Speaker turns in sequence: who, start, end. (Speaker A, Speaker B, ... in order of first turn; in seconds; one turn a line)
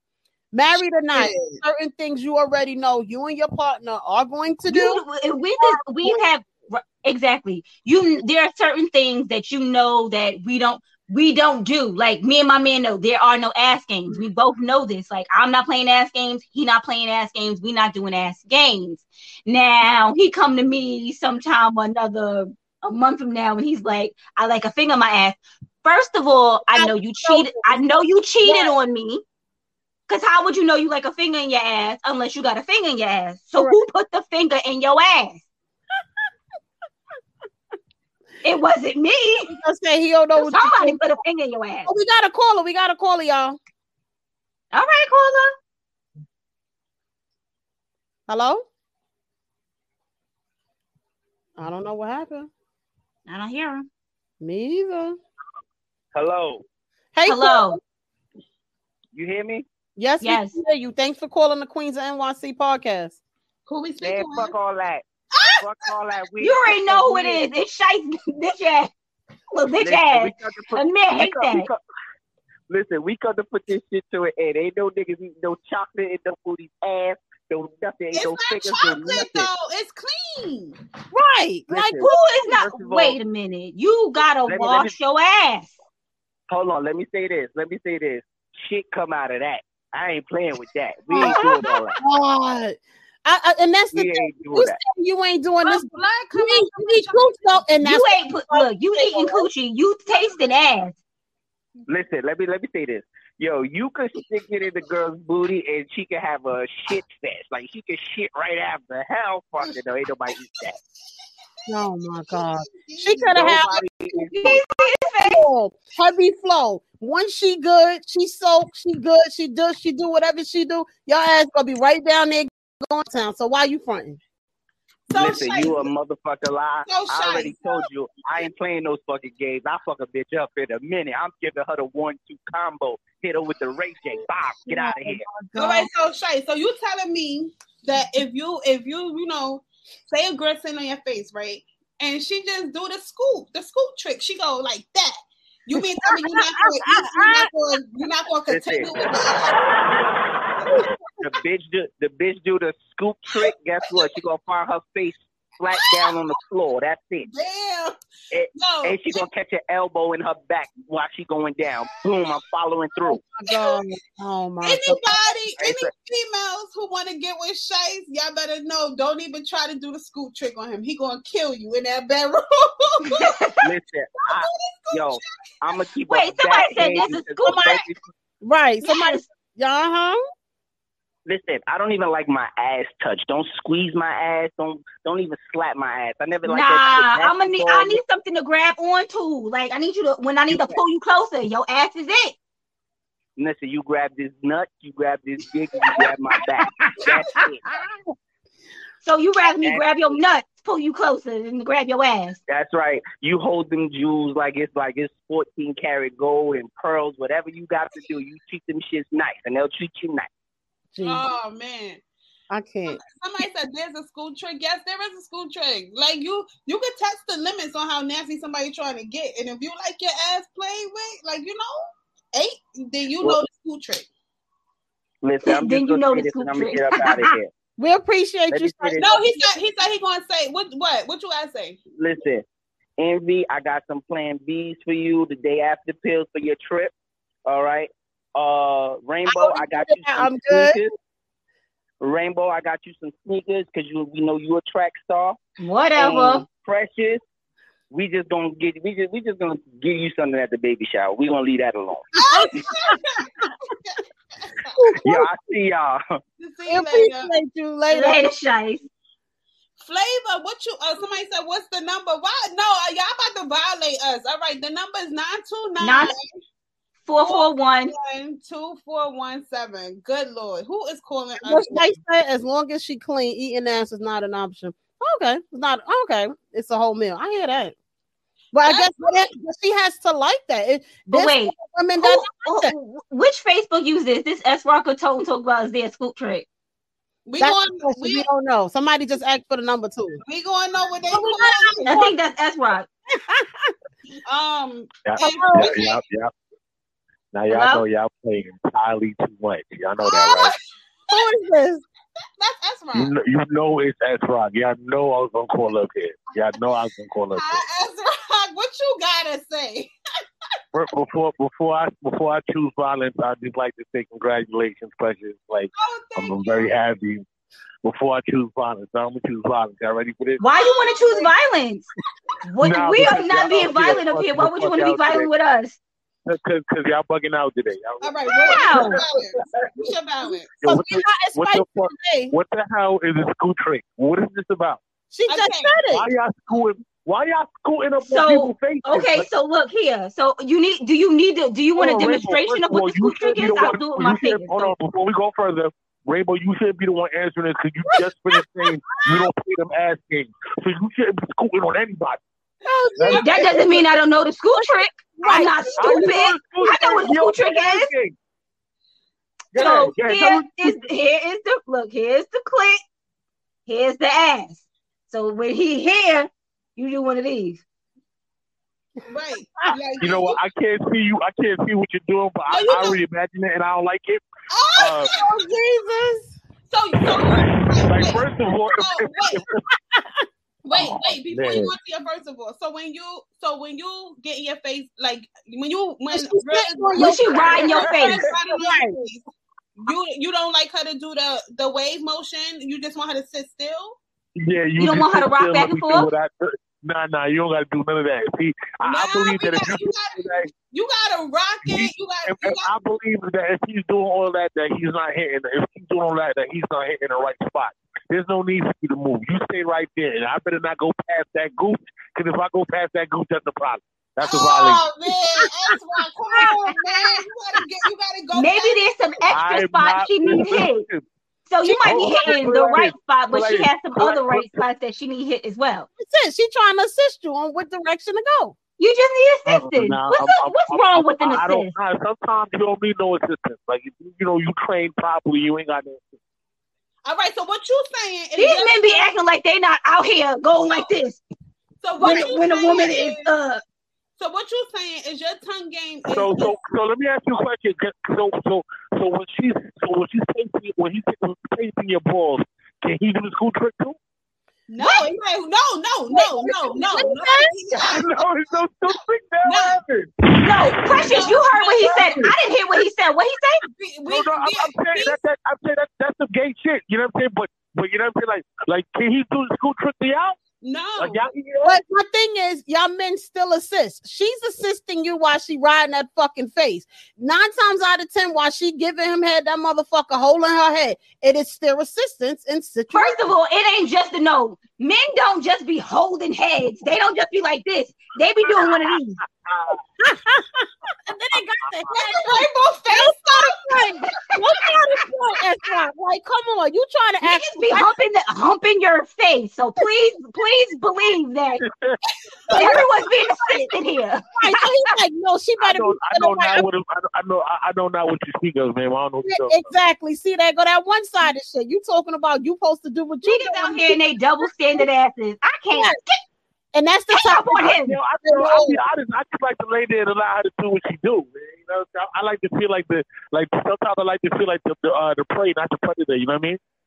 Speaker A: 0.5-5.0
Speaker B: 1.1-1.6
Speaker C: 4.7-29.2
Speaker A: 5.7-6.2
Speaker A: 26.7-27.8
Speaker A: 28.4-28.7
Speaker C: 30.1-35.4
Speaker C: 38.4-39.5
Speaker A: 39.5-41.0
Speaker C: 40.4-41.9
Speaker A: 41.9-43.6
Speaker C: 44.7-45.5
Speaker A: 48.3-48.6
Speaker A: 51.6-52.5
Speaker C: 53.3-53.9
Speaker A: 54.4-55.2
Speaker D: 56.1-56.6
Speaker A: 57.1-57.8
Speaker C: 57.2-57.8
Speaker D: 59.1-59.6
Speaker A: 60.0-63.2
Speaker C: 60.2-60.5
Speaker B: 63.7-64.5
Speaker D: 64.0-65.0
Speaker B: 65.3-65.9
Speaker D: 65.5-67.4
Speaker C: 66.4-68.9
Speaker C: 69.5-71.7
Speaker D: 69.8-71.8
Speaker D: 72.7-79.5
Speaker B: 78.1-80.8
Speaker A: 81.1-82.0
Speaker D: 81.7-83.2
Speaker C: 82.0-85.8
Speaker D: 84.4-85.0
Speaker D: 86.5-92.0
Speaker A: 91.1-91.4
Speaker C: 91.2-91.8
Speaker A: 92.0-99.4
Speaker D: 93.9-94.8
Speaker B: 95.6-97.7
Speaker C: 97.8-101.0
Speaker D: 101.9-110.8
Speaker A: 111.7-124.2
Speaker B: 112.3-113.8
Speaker D: 113.3-114.6
Speaker C: 114.4-115.5
Speaker B: 125.1-125.9
Speaker D: 125.1-135.2
Speaker B: 126.8-127.7
Speaker A: 134.7-135.9
Speaker B: 135.6-149.6
Speaker A: 146.0-147.5
Speaker D: 148.5-148.9
Speaker D: 151.2-157.3
Speaker B: 153.3-154.1
Speaker B: 155.7-156.3
Speaker B: 157.2-157.9
Speaker D: 158.3-163.2
Speaker B: 158.5-159.3
Speaker A: 163.1-165.0
Speaker B: 163.5-163.8
Speaker B: 164.6-173.3
Speaker D: 165.6-165.9
Speaker C: 173.1-173.6
Speaker D: 173.6-178.0
Speaker B: 174.2-175.3
Speaker C: 176.1-177.8
Speaker A: 177.4-177.8
Speaker A: 178.4-180.2
Speaker C: 178.8-179.2
Speaker D: 181.2-188.0
Speaker C: 186.4-192.3
Speaker D: 193.4-197.6
Speaker C: 199.0-202.4
Speaker D: 202.5-210.3
Speaker A: 210.9-211.2
Speaker B: 211.0-212.0
Speaker A: 212.5-213.0
Speaker B: 212.9-224.1
Speaker D: 225.2-227.5
Speaker C: 225.4-227.3
Speaker A: 227.8-229.4
Speaker D: 228.5-229.2
Speaker B: 229.0-231.8
Speaker D: 232.0-232.4
Speaker D: 233.0-236.9
Speaker D: 237.4-240.9
Speaker A: 239.2-240.8
Speaker D: 242.0-245.4
Speaker C: 245.6-246.4
Speaker D: 246.0-247.2
Speaker D: 247.9-252.0
Speaker B: 252.2-253.3
Speaker A: 252.3-253.0
Speaker B: 253.8-254.7
Speaker A: 254.8-255.3
Speaker D: 255.0-256.0
Speaker B: 256.4-257.3
Speaker A: 256.7-258.3
Speaker C: 257.9-258.8
Speaker B: 259.8-266.3
Speaker C: 265.8-266.1
Speaker C: 267.0-267.9
Speaker B: 267.2-271.9
Speaker A: 271.4-277.7
Speaker A: 278.5-282.7
Speaker B: 278.6-279.3
Speaker C: 281.1-286.4
Speaker B: 287.2-288.3
Speaker A: 287.4-290.2
Speaker B: 290.2-292.0
Speaker A: 291.1-292.1
Speaker C: 291.9-292.9
Speaker A: 293.1-293.7
Speaker B: 294.2-296.0
Speaker E: 295.1-296.3
Speaker A: 295.2-295.7
Speaker E: 297.3-300.5
Speaker C: 297.5-297.8
Speaker B: 300.0-300.6
Speaker A: 301.1-301.8
Speaker B: 302.4-303.1
Speaker E: 302.9-307.6
Speaker B: 307.3-309.9
Speaker E: 310.7-317.2
Speaker B: 315.7-316.7
Speaker E: 317.8-320.4
Speaker C: 320.4-321.9
Speaker B: 320.5-321.3
Speaker C: 322.5-325.8
Speaker E: 322.6-325.3
Speaker E: 326.3-329.0
Speaker B: 328.0-330.6
Speaker C: 328.5-329.0
Speaker E: 330.6-334.8
Speaker A: 330.6-332.3
Speaker A: 335.1-336.1
Speaker B: 335.3-335.8
Speaker E: 335.9-339.3
Speaker C: 338.0-344.7
Speaker E: 341.8-352.2
Speaker A: 347.9-349.2
Speaker A: 352.6-353.5
Speaker E: 353.0-353.3
Speaker B: 353.0-353.8
Speaker C: 353.1-357.9
Speaker A: 354.6-356.2
Speaker E: 355.8-358.1
Speaker E: 359.5-360.7
Speaker C: 359.6-362.8
Speaker C: 363.7-367.6
Speaker B: 369.1-370.4
Speaker E: 370.0-374.2
Speaker B: 372.5-373.0
Speaker B: 374.5-375.3
Speaker E: 374.8-375.1
Speaker A: 375.1-376.3
Speaker B: 376.7-379.4
Speaker E: 377.3-379.5
Speaker A: 379.9-380.2
Speaker B: 380.6-389.2
Speaker E: 380.7-381.7
Speaker A: 386.1-387.7
Speaker C: 387.0-388.2
Speaker A: 388.4-389.0
Speaker B: 389.8-394.0
Speaker E: 394.4-400.5
Speaker C: 394.8-396.1
Speaker B: 398.8-402.7
Speaker E: 401.6-414.8
Speaker B: 414.2-418.9
Speaker C: 418.3-420.9
Speaker E: 419.3-421.0
Speaker C: 421.5-425.9
Speaker E: 421.8-424.6
Speaker A: 426.0-428.5
Speaker C: 428.8-431.7
Speaker E: 429.5-436.1
Speaker B: 437.0-439.1
Speaker C: 438.4-441.2
Speaker B: 441.8-443.3
Speaker C: 442.0-443.6
Speaker B: 444.2-446.6
Speaker E: 446.1-454.0
Speaker B: 454.7-458.2
Speaker C: 454.8-455.1
Speaker A: 456.1-457.5
Speaker E: 457.7-460.2
Speaker B: 459.4-459.8
Speaker C: 460.4-463.6
Speaker B: 461.0-462.3
Speaker B: 463.6-465.2
Speaker E: 464.1-470.4
Speaker B: 470.6-471.2
Speaker E: 471.0-471.8
Speaker A: 471.6-483.2
Speaker C: 482.9-489.2
Speaker E: 488.4-488.8
Speaker E: 489.4-489.8
Speaker A: 490.0-497.9
Speaker B: 492.0-493.6
Speaker C: 497.2-501.6
Speaker E: 501.6-502.0
Speaker B: 502.5-503.2
Speaker C: 502.5-504.6
Speaker A: 504.4-506.6
Speaker E: 505.6-509.7
Speaker A: 509.2-514.9
Speaker C: 513.2-516.2
Speaker A: 515.7-516.0
Speaker A: 516.7-517.6
Speaker C: 517.1-518.0
Speaker E: 517.6-526.6
Speaker A: 518.2-518.8